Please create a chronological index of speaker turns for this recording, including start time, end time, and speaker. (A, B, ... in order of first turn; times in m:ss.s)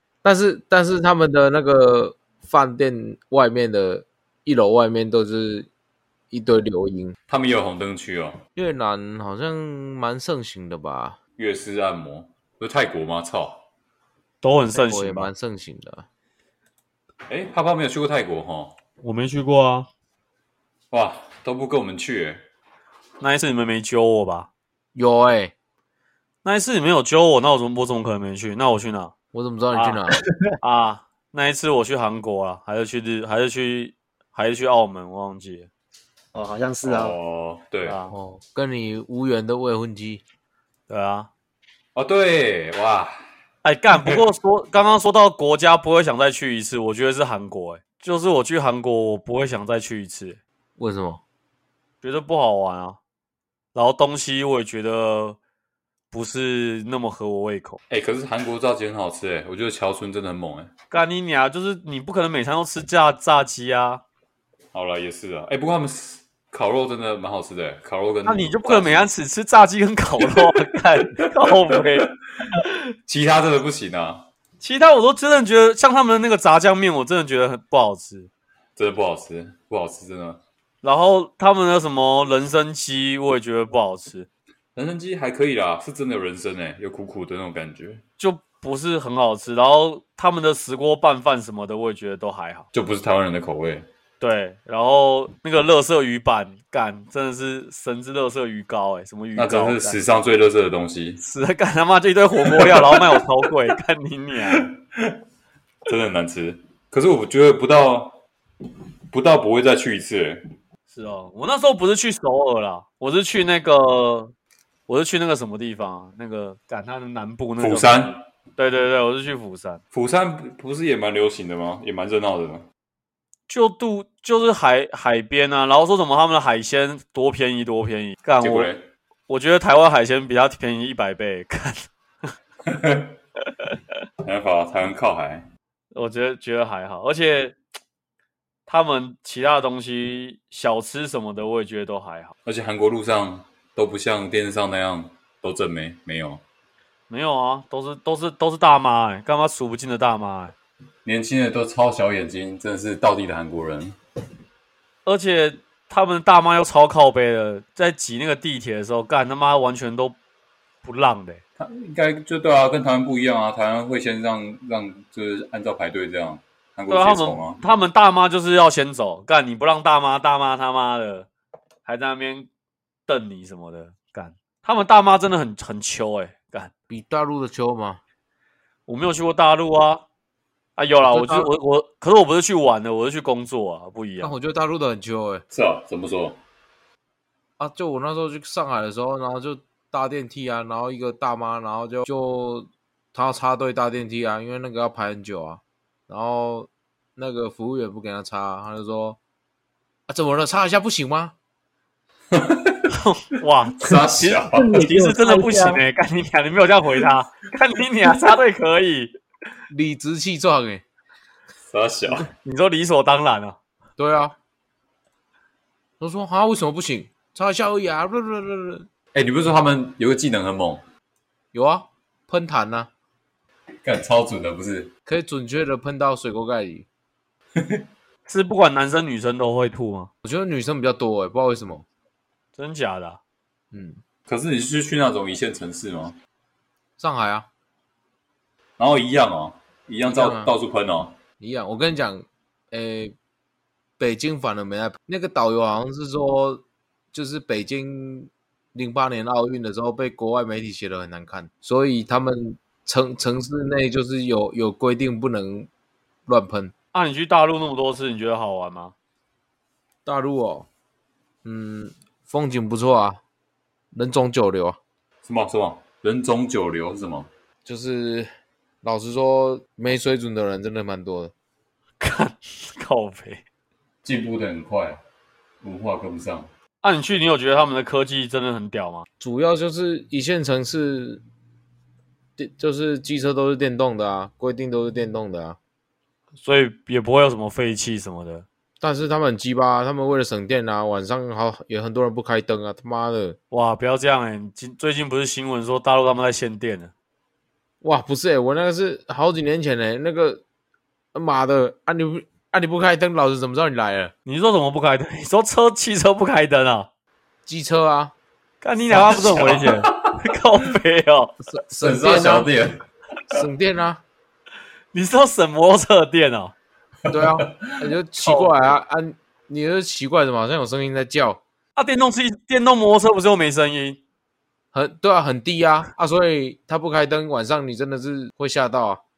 0:00.2-0:05.7 A
0:06.3-0:07.2 A
0:07.3-0:08.4 B
0:08.6-0:11.2 A
0:11.4-0:13.6 B
0:14.4-0:15.3 C
0:14.7-0:16.1 A
0:17.3-0:18.8 B
0:19.0-0:19.9 C
0:20.9-0:22.4 B
0:23.2-0:24.5 C
0:25.0-0:25.5 A
0:26.4-0:29.1 C
0:29.3-0:30.2 A
0:29.7-0:35.7 C
0:36.3-0:37.2 D
0:36.8-0:38.0 B
0:37.8-0:38.1 C
0:38.1-0:40.2 A
0:40.9-0:41.3 C
0:42.0-0:43.3 B
0:43.6-0:50.4 C
0:50.8-0:51.2 A
0:52.0-0:53.0 C
0:53.8-0:55.4 C
0:56.1-0:57.8 C
0:57.9-1:00.7 B
1:00.9-1:04.0 C
1:04.7-1:09.1 B
1:08.2-1:12.8 C
1:10.2-1:12.0 B
1:13.1-1:14.3 B
1:14.6-1:18.3 C
1:18.8-1:20.4 B
1:20.8-1:24.3 C
1:24.8-1:28.0 B
1:28.2-1:32.7 C
1:32.7-1:33.9 B
1:34.2-1:40.0 C
1:39.4-1:41.2 B
1:41.2-1:44.7 C
1:42.5-1:43.5 B
1:44.6-1:45.2 B
1:45.9-1:48.2 B
1:49.1-1:50.4 B
1:50.9-1:54.3 C
1:54.9-1:59.8 C
1:57.6-1:58.2 B
1:59.9-2:02.6 B
2:03.5-2:08.7 C
2:08.4-2:08.9 B
2:09.3-2:11.9 C
2:12.7-2:13.2 B
2:14.2-2:15.5 B
2:15.9-2:17.6 C
2:18.7-2:22.3 C
2:22.4-2:26.4 B
2:27.1-2:30.5 C
2:31.0-2:34.0 B
2:35.0-2:40.2 C
2:40.8-2:41.4 C
2:41.6-2:47.6 B
2:46.9-2:51.3 C
2:51.8-2:52.5 C
2:53.1-2:56.7 C
2:56.9-2:58.0 A
2:58.9-3:00.0 C
3:00.8-3:04.3 C
3:01.0-3:01.5 A
3:04.2-3:05.4 A
3:05.5-3:06.4 B
3:07.6-3:19.2 A
3:20.1-3:21.3 A
3:22.3-3:23.0 B
3:22.9-3:29.1 C
3:23.8-3:24.8 B
3:24.5-3:25.8 D
3:29.7-3:30.8 A
3:31.7-3:32.3 B
3:32.1-3:33.6 C
3:34.0-3:34.4 A
3:36.0-3:38.9 A
3:39.1-3:40.8 B
3:41.5-3:42.9 A
3:43.8-3:44.9 B
3:45.1-3:46.9 A
3:47.6-3:47.8 B
3:48.3-3:50.1 C
3:50.2-3:51.8 A
3:52.6-3:53.2 C
3:53.7-3:54.0 A
3:54.3-3:56.2 B
3:57.0-3:57.5 A
3:58.8-4:01.2 B
4:00.0-4:00.5 A
4:01.4-4:03.2 A
4:04.0-4:15.7 A
4:16.3-4:16.7 A
4:16.9-4:18.9 C
4:20.1-4:20.7 A
4:21.4-4:23.2 A
4:23.9-4:24.8 A
4:25.2-4:27.3 B
4:27.6-4:28.3 A
4:28.8-4:31.3 A
4:32.0-4:33.4 C
4:34.0-4:35.0 B
4:35.6-4:36.5 B
4:36.8-4:39.1 C
4:39.2-4:41.2 A
4:42.4-4:45.6 A
4:46.4-4:48.4 C
4:48.8-4:53.4 A
4:53.5-4:56.9 C
4:57.8-5:00.4 A
5:01.1-5:04.1 A
5:04.3-5:06.9 C
5:07.5-5:08.1 A
5:08.6-5:11.4 C
5:08.9-5:10.2 B
5:11.5-5:12.5 A
5:11.8-5:12.8 B
5:13.3-5:14.0 A
5:14.9-5:16.5 C
5:17.1-5:21.4 A
5:17.1-5:17.8 B
5:18.2-5:18.5 C
5:21.8-5:24.0 C
5:24.7-5:29.0 A